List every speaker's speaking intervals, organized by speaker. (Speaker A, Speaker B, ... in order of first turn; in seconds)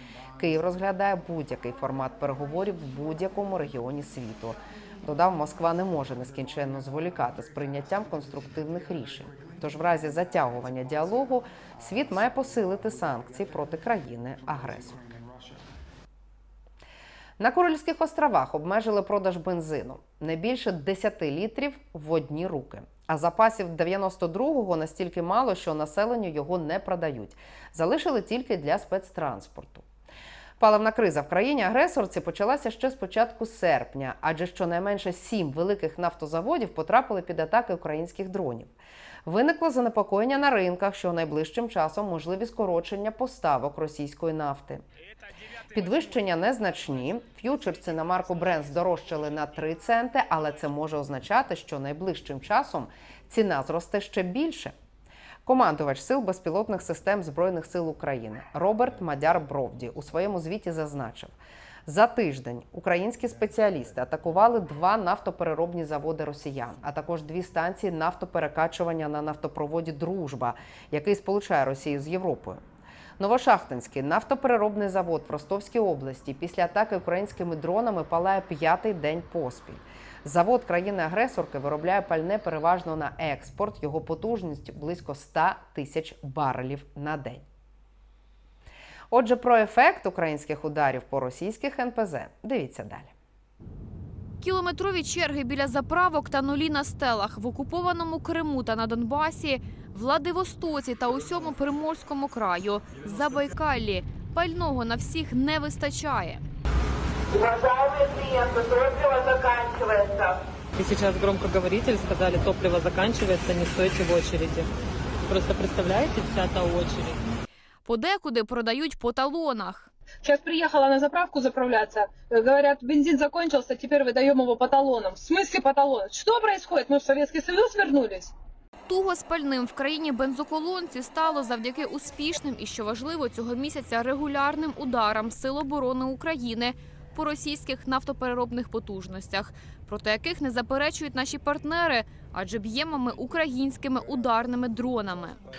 Speaker A: 0.4-15.0, 17.4-29.8, 30.6-38.7, 39.2-44.8, 45.7-54.7, 55.4-61.3, 61.9-72.6, 73.2-87.4, 89.1-93.1
Speaker B: 94.4-106.4, 117.8-119.9, 128.9-145.4
Speaker C: 107.4-110.2
Speaker D: 110.8-114.7, 115.3-117.2
Speaker E: 120.2-128.3